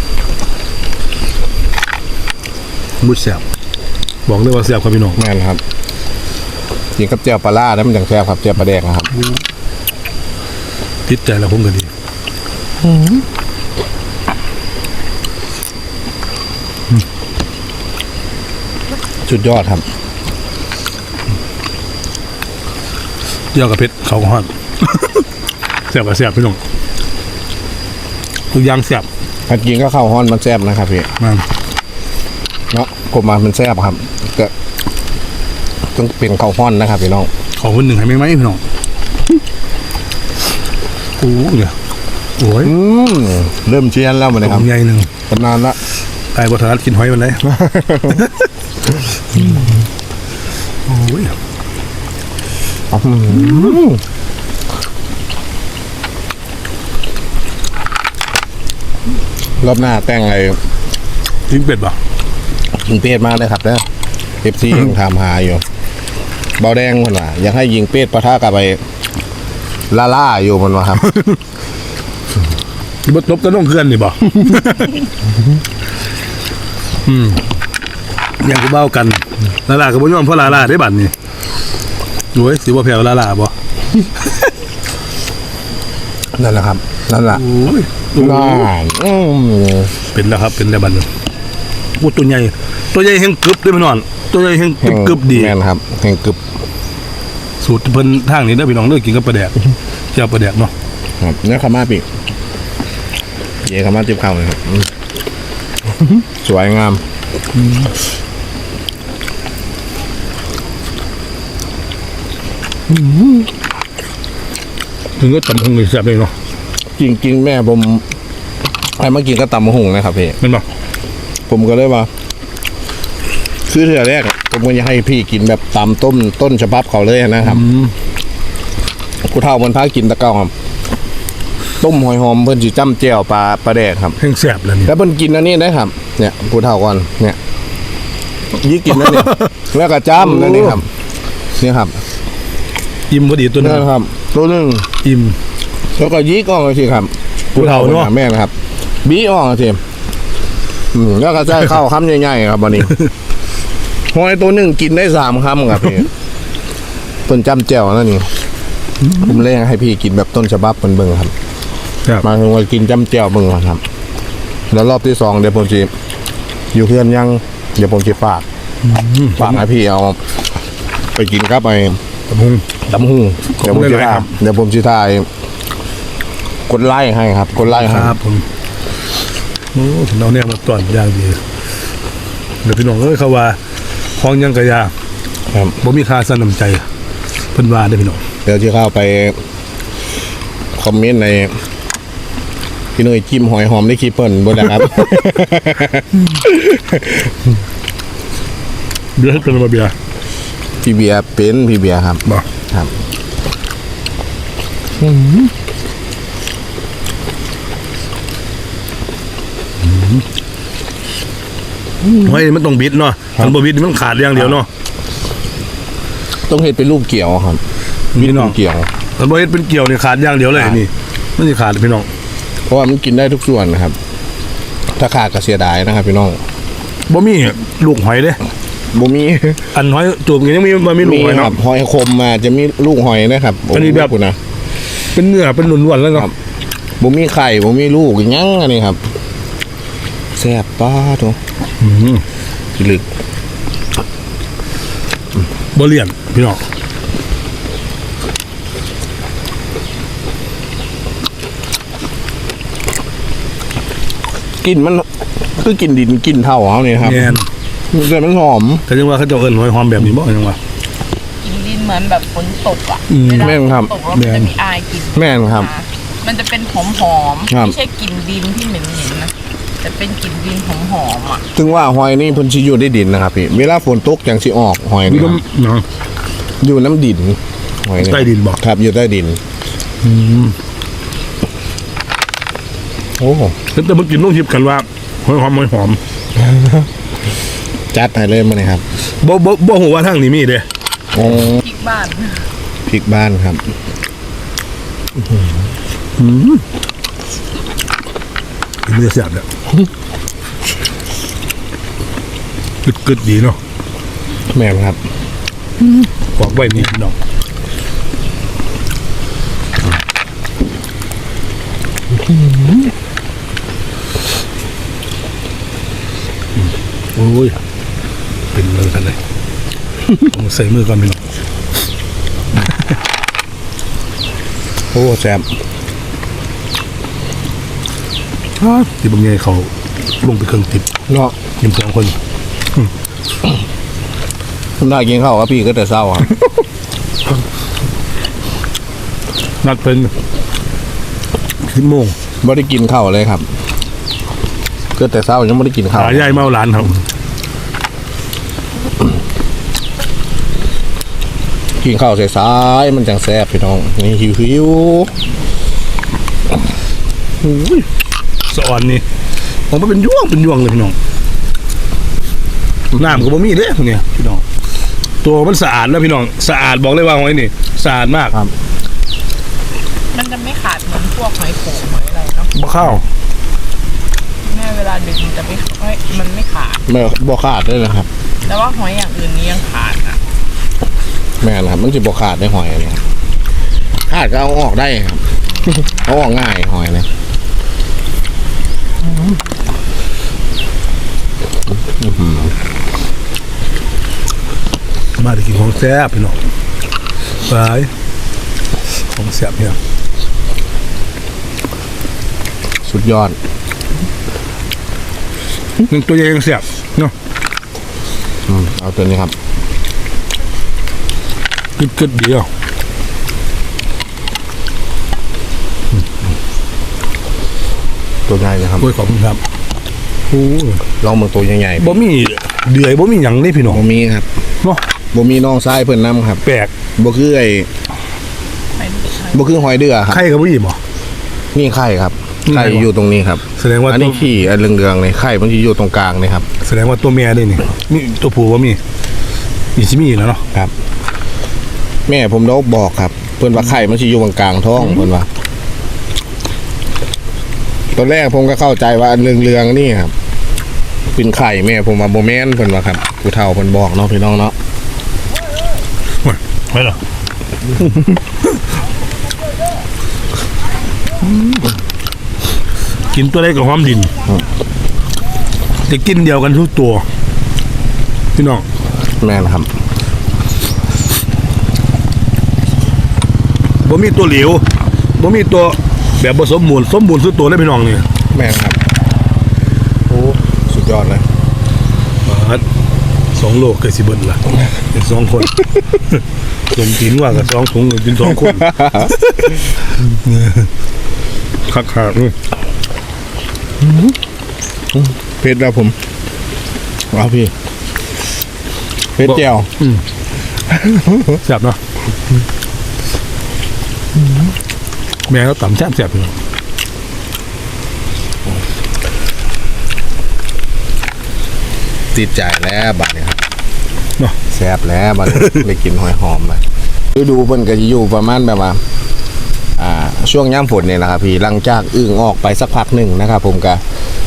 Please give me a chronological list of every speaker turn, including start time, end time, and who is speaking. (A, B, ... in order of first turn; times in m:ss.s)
0:03.0-0:03.4 A
0:04.2-0:05.2 A
0:05.2-0:05.6 B
0:07.0-0:09.1 B
0:11.0-0:11.9 A
0:12.8-0:13.2 B
0:19.2-0:19.8 B
0:23.5-0:25.2 A
0:25.9-0:26.6 A
0:28.5-0:29.1 A
0:29.5-0:31.1 B
0:31.2-0:31.4 A
0:32.7-0:34.5 B
0:35.9-0:37.3 B
0:37.5-0:38.6 A
0:41.2-0:41.8 A
0:42.4-0:42.7 A
0:42.6-0:44.7 B
0:44.4-0:45.1 A
0:45.3-0:45.8 B
0:46.3-0:48.5 A
0:47.5-0:48.2 B
0:50.8-0:51.4 A
0:52.9-0:54.0 B
0:53.3-0:53.8 A
0:59.6-1:00.6 B
1:01.5-1:02.0 A
1:02.7-1:03.8 B
1:04.4-1:05.6 B
1:06.6-1:08.8 B
1:09.9-1:11.1 B
1:11.0-1:11.4 A
1:13.0-1:15.0 A
1:17.0-1:17.4 A
1:18.4-1:21.1 A
1:22.3-1:23.5 A
1:26.3-1:27.4 B
1:27.3-1:28.7 A
1:28.1-1:29.9 B
1:30.1-1:31.1 A
1:32.0-1:35.5 A
1:34.8-1:36.4 B
1:37.6-1:39.5 A
1:40.1-1:40.7 A
1:41.2-1:42.0 B
1:43.6-1:44.9 B
1:46.2-1:47.0 B
1:47.6-1:47.9 A
1:55.2-1:56.3 A
1:57.0-1:58.0 B
1:59.0-2:00.4 B
2:00.4-2:00.7 A
2:01.5-2:02.1 B
2:03.7-2:07.6 B
2:07.4-2:07.9 A
2:09.2-2:10.5 B
2:11.8-2:14.2 B
2:14.2-2:14.9 A
2:14.8-2:17.4 B
2:18.5-2:20.9 B
2:18.9-2:19.5 A
2:20.2-2:20.8 A
2:21.6-2:22.0 B
2:23.1-2:23.9 A
2:23.6-2:24.9 B
2:25.0-2:25.4 A
2:26.0-2:29.8 B
2:27.5-2:28.1 A
2:30.9-2:33.0 B
2:34.1-2:36.1 B
2:37.3-2:38.3 B
2:39.1-2:41.3 B
2:42.2-2:43.8 B
2:44.7-2:45.9 B
2:46.7-2:48.4 B
2:48.8-2:49.6 A
2:49.4-2:50.2 B
2:51.1-2:52.0 B
2:52.3-2:52.8 A
2:52.9-2:55.3 B
2:53.5-2:54.3 A
2:56.7-2:58.1 B
2:57.6-2:58.4 A
2:59.7-3:01.4 A
3:02.6-3:04.9 A
3:05.5-3:05.8 B
3:05.8-3:06.9 A
3:07.5-3:08.2 A
3:08.4-3:09.4 B
3:10.8-3:11.6 B
3:13.0-3:17.3 B
3:19.2-3:19.9 A
3:20.8-3:22.9 B
3:29.8-3:30.2 A
3:32.1-3:34.7 A
3:36.5-3:37.6 B
3:38.1-3:38.5 A
3:38.2-3:38.9 B
3:39.2-3:42.1 A
3:42.7-3:44.0 B
3:44.9-3:46.4 B
3:47.1-3:48.4 A
3:48.9-3:49.6 B
3:49.7-3:51.6 A
3:51.0-3:54.4 B
3:53.7-3:54.1 A
3:55.1-3:56.3 A
3:57.0-3:59.0 B
4:00.4-4:01.4 B
4:01.8-4:02.2 A
4:02.7-4:03.0 B
4:05.7-4:06.6 A
4:14.6-4:17.4 B
4:17.0-4:17.5 A
4:17.9-4:18.8 B
4:18.9-4:20.6 A
4:21.4-4:31.6 C
4:23.1-4:23.6 A
4:23.4-4:23.9 B
4:24.1-4:24.5 A
4:25.1-4:25.7 B
4:27.5-4:27.8 B
4:31.5-4:35.4 B
4:35.0-4:35.8 A
4:36.6-4:39.4 B
4:38.0-4:38.6 A
4:40.0-4:40.6 A
4:43.2-4:43.6 B
4:43.7-4:46.0 A
4:47.9-4:48.8 B
4:49.0-4:50.7 A
4:51.1-4:51.6 B
4:51.6-4:52.4 C
4:52.8-4:53.7 B
4:56.2-4:56.6 A
4:58.8-4:59.4 A
5:02.8-5:03.6 A
5:04.5-5:05.0 B
5:06.2-5:07.2 A
5:17.1-5:17.6 A
5:18.5-5:19.2 A
5:20.1-5:21.2 A
5:24.9-5:25.5 B
5:28.6-5:30.9 A
5:31.1-5:31.3 B
5:31.6-5:32.2 A
5:34.8-5:36.3 B
5:39.6-5:40.1 A
5:41.6-5:42.2 A
5:42.4-5:43.5 B
5:44.9-5:46.4 B
5:45.9-5:47.0 A
5:51.8-5:55.1 B
5:58.5-5:59.0 A
5:59.7-6:01.0 A
6:02.9-6:04.4 A
6:05.2-6:08.4 A
6:10.1-6:12.5 C
6:12.5-6:13.1 A
6:14.4-6:16.8 C
6:16.9-6:18.1 B
6:18.4-6:20.2 C
6:21.4-6:23.0 B
6:24.1-6:27.1 B
6:32.0-6:32.5 B
6:35.2-6:36.4 A
6:37.4-6:37.9 A
6:38.8-6:39.8 A
6:42.8-6:43.4 B
6:45.8-6:47.1 A
6:48.5-6:49.3 B
6:51.8-6:52.5 A
6:58.3-6:58.9 B
6:58.8-6:59.4 A
7:00.3-7:00.8 A
7:01.0-7:02.0 B
7:01.8-7:03.8 A
7:03.7-7:04.2 B
7:04.6-7:04.8 A
7:05.1-7:06.4 B
7:06.4-7:06.7 A
7:06.9-7:07.7 B
7:08.8-7:09.6 C
7:09.3-7:10.2 B
7:10.0-7:10.8 A
7:11.5-7:16.4 B
7:12.4-7:12.9 A
7:13.6-7:14.3 A
7:16.6-7:18.8 A
7:19.7-7:20.4 A
7:22.1-7:25.3 B
7:27.9-7:30.1 B
7:31.1-7:34.5 B
7:36.2-7:37.0 A
7:41.3-7:41.6 A
7:43.0-7:44.1 A
7:45.8-7:47.1 A
7:48.3-7:48.6 A
7:49.2-7:49.7 B
7:53.8-7:54.6 A
7:55.2-7:58.1 A
7:58.3-7:58.8 B
8:00.1-8:01.2 B
8:02.2-8:02.6 A
8:03.3-8:10.7 A
8:08.6-8:09.1 B
8:11.6-8:12.4 A
8:14.9-8:16.0 B
8:17.1-8:17.5 B
8:19.2-8:19.7 B
8:19.8-8:20.0 A
8:20.7-8:21.4 B
8:21.3-8:21.8 A
8:25.3-8:26.3 A
8:32.1-8:33.4 B
8:34.4-8:36.6 B
8:35.3-8:35.6 A
8:37.1-8:38.8 B
8:39.8-8:43.8 B